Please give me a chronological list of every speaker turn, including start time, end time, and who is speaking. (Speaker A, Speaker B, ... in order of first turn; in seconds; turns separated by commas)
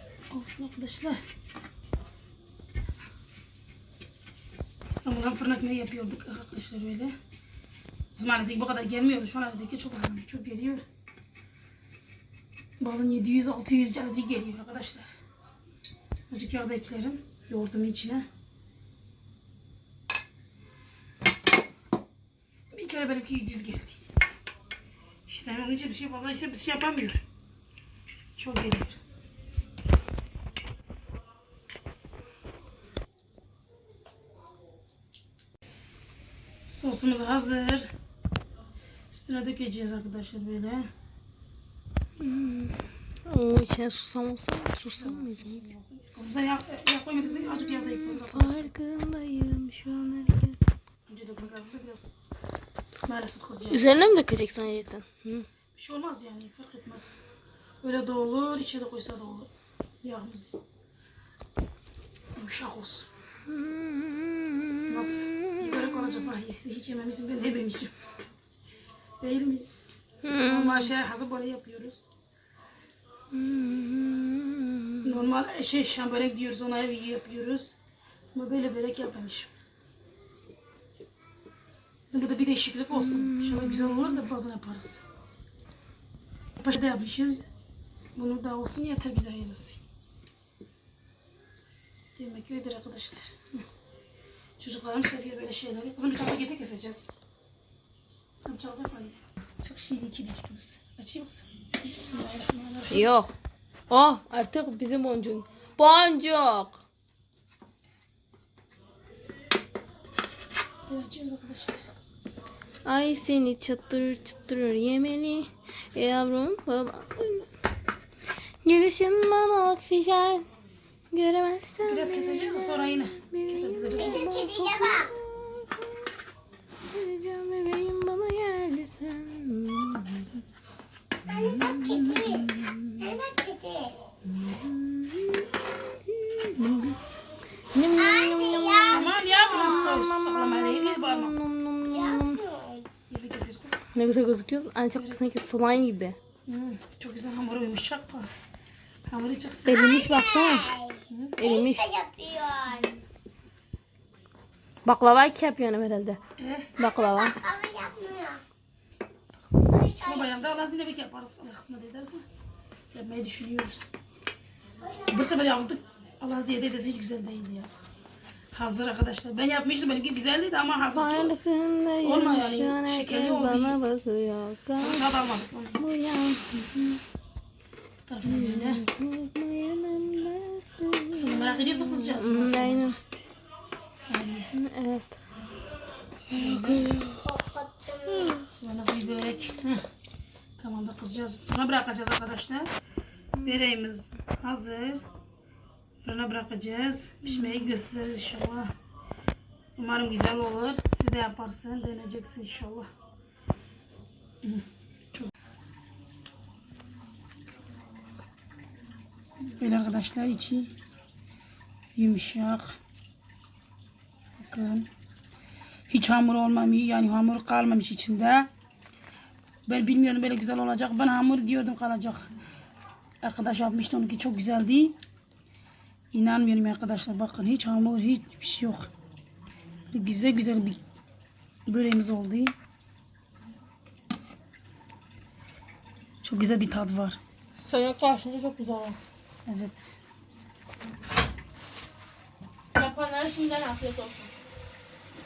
Speaker A: 0.3-1.2, Speaker A: 4.9-7.1, Speaker A: 8.2-10.8, Speaker A: 12.8-15.1, Speaker A: 16.3-18.2, Speaker A: 22.7-24.0, Speaker A: 25.3-27.2, Speaker A: 28.4-29.0, Speaker A: 36.7-37.9, Speaker A: 39.1-40.9, Speaker B: 42.2-45.6, Speaker A: 44.9-48.7, Speaker B: 47.4-50.6, Speaker A: 51.1-52.0, Speaker A: 53.0-54.0, Speaker B: 53.7-55.5, Speaker A: 55.7-57.2, Speaker A: 57.8-59.5, Speaker A: 60.0-60.6, Speaker A: 62.3-63.1, Speaker B: 63.5-66.3, Speaker A: 64.9-67.9, Speaker A: 69.2-69.7, Speaker B: 70.2-70.9, Speaker A: 70.4-72.0, Speaker B: 73.3-75.2, Speaker A: 75.0-77.8, Speaker A: 78.3-79.5, Speaker A: 82.1-85.0, Speaker B: 82.9-84.2, Speaker A: 86.6-87.4, Speaker A: 88.1-89.8, Speaker A: 92.2-93.6, Speaker A: 94.6-97.1, Speaker A: 98.4-103.1, Speaker B: 102.9-103.3, Speaker B: 103.9-106.8, Speaker A: 110.9-111.9, Speaker B: 112.8-117.5, Speaker B: 118.6-120.5, Speaker B: 121.1-126.1, Speaker A: 121.8-124.2, Speaker C: 123.9-125.1, Speaker B: 126.9-130.3, Speaker C: 131.2-134.0, Speaker B: 131.3-133.2, Speaker B: 134.4-135.5, Speaker B: 136.1-136.9, Speaker B: 137.7-142.4, Speaker C: 137.9-139.1, Speaker A: 138.9-141.3, Speaker C: 141.9-142.9, Speaker A: 143.1-143.8, Speaker B: 143.9-146.2, Speaker A: 144.9-145.2, Speaker A: 146.5-148.3, Speaker A: 149.1-149.8, Speaker B: 149.7-150.7, Speaker C: 149.7-152.9, Speaker A: 151.1-151.3, Speaker B: 151.4-151.9, Speaker B: 154.8-156.2, Speaker A: 156.4-156.7, Speaker B: 156.8-157.4, Speaker C: 156.8-158.4, Speaker C: 159.6-160.5, Speaker A: 160.0-162.2, Speaker A: 162.9-163.9, Speaker A: 165.1-167.8, Speaker A: 168.5-171.3, Speaker B: 170.9-175.1, Speaker A: 172.0-173.8, Speaker A: 174.8-175.8, Speaker B: 175.8-177.0, Speaker A: 178.1-178.9, Speaker B: 178.2-183.0, Speaker A: 181.1-182.9, Speaker A: 184.1-184.5, Speaker B: 184.5-185.1, Speaker A: 186.3-186.9, Speaker B: 186.3-187.2, Speaker C: 187.2-188.4, Speaker A: 188.5-189.8, Speaker A: 190.6-192.7, Speaker A: 193.4-195.0, Speaker A: 196.0-198.7, Speaker B: 197.3-197.7, Speaker A: 199.8-202.9, Speaker A: 204.4-205.3, Speaker A: 209.6-210.7, Speaker A: 211.9-212.8, Speaker A: 214.4-214.9, Speaker A: 215.9-218.5, Speaker A: 219.7-222.3, Speaker A: 223.2-224.9, Speaker A: 226.1-228.9, Speaker A: 229.9-230.8, Speaker A: 231.7-232.5, Speaker A: 236.2-237.2, Speaker B: 237.7-239.0, Speaker A: 239.4-239.9, Speaker B: 242.7-244.3